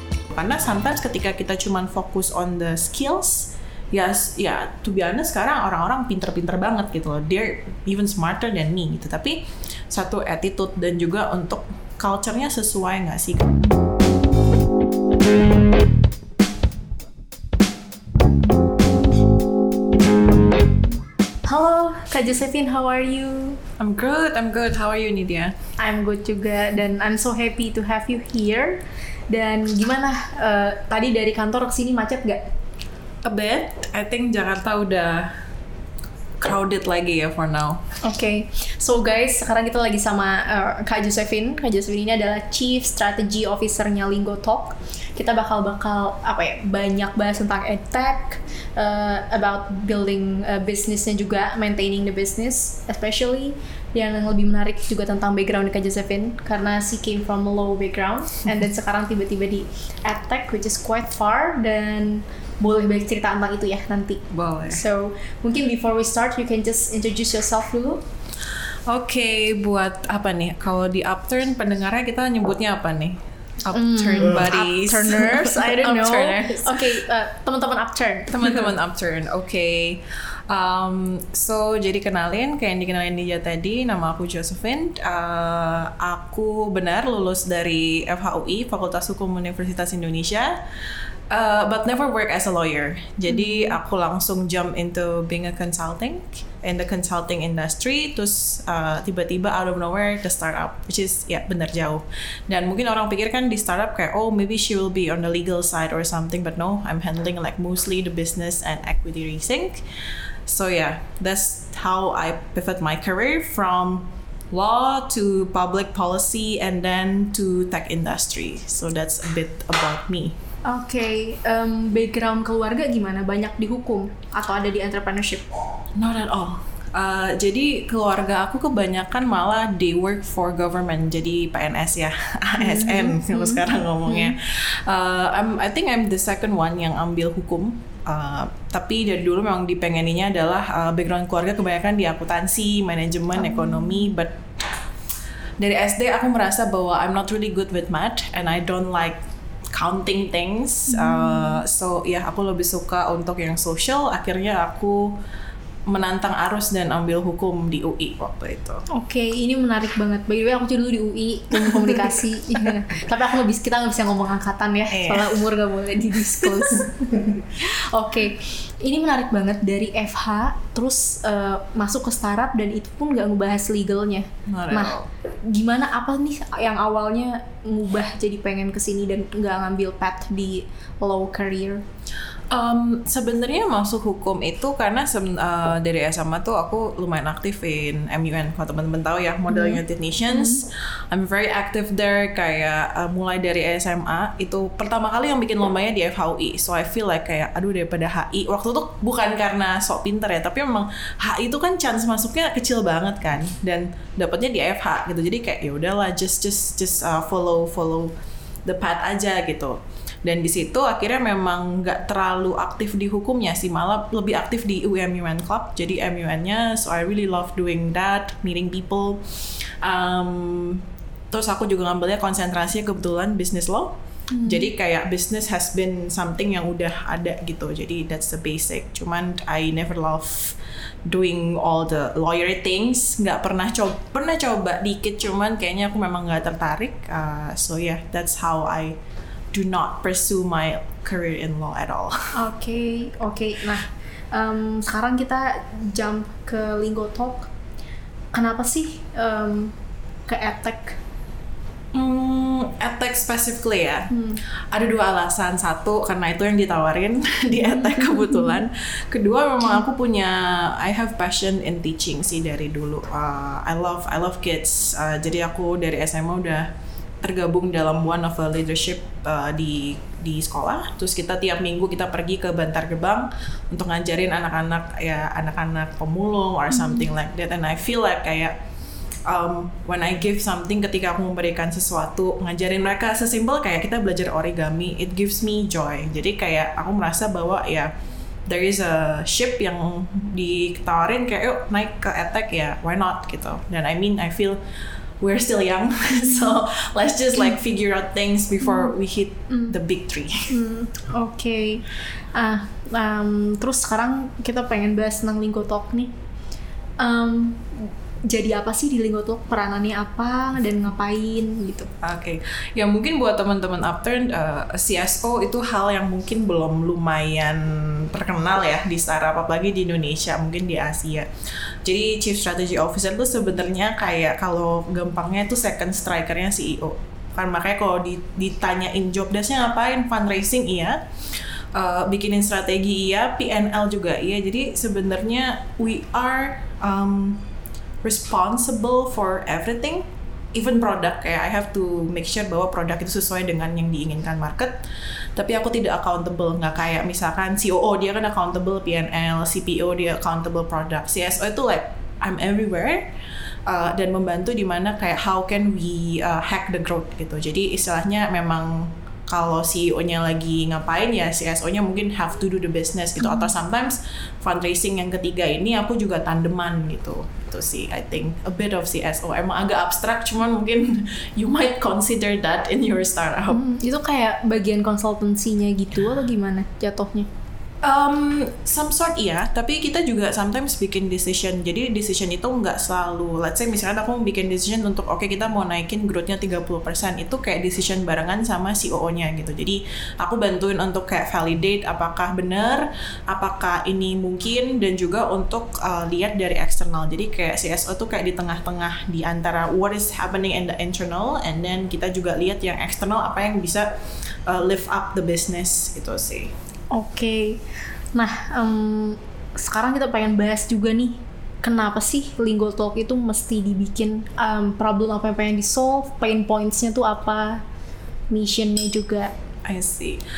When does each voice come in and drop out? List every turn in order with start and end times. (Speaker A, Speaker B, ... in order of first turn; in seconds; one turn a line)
Speaker A: 0.3-13.6
Speaker B: 21.5-23.6
Speaker A: 23.8-25.6
Speaker B: 25.8-32.4
Speaker A: 33.2-35.3
Speaker A: 36.4-37.8
Speaker B: 38.0-68.0
Speaker A: 64.3-64.8
Speaker A: 68.9-77.0
Speaker B: 73.7-78.7
Speaker A: 78.3-90.6
Speaker A: 91.3-109.8
Speaker B: 93.3-93.8
Speaker A: 110.5-120.4
Speaker B: 120.7-125.5
Speaker A: 126.0-144.4
Speaker B: 132.6-134.3
Speaker A: 145.6-149.2
Speaker A: 149.7-155.2
Speaker B: 150.9-151.6
Speaker A: 155.9-158.8
Speaker B: 158.9-181.8
Speaker A: 161.6-162.6
Speaker A: 164.9-165.4
Speaker A: 166.4-166.9
Speaker A: 174.5-175.1
Speaker A: 182.5-208.1
Speaker B: 189.5-190.6
Speaker A: 208.7-223.9
Speaker B: 224.3-224.7
Speaker A: 224.4-239.0
Speaker A: 239.5-242.3
Speaker B: 242.3-247.5
Speaker B: 248.3-249.8
Speaker B: 250.3-251.0
Speaker A: 251.9-254.1
Speaker B: 254.1-254.4
Speaker A: 254.7-266.7
Speaker B: 257.5-258.6
Speaker A: 267.2-278.6
Speaker B: 276.7-277.1
Speaker A: 279.3-287.9
Speaker A: 288.5-294.6
Speaker A: 295.2-300.5
Speaker B: 299.5-299.8
Speaker B: 300.5-306.1
Speaker B: 307.0-311.9
Speaker A: 312.0-331.0
Speaker A: 331.7-337.5
Speaker A: 338.0-344.8
Speaker A: 345.4-353.1
Speaker A: 353.7-373.6
Speaker B: 363.2-363.5
Speaker B: 373.5-377.3
Speaker A: 377.8-403.9
Speaker A: 404.5-406.5
Speaker B: 406.9-407.6
Speaker B: 408.1-417.6
Speaker B: 418.3-419.3
Speaker A: 419.7-420.2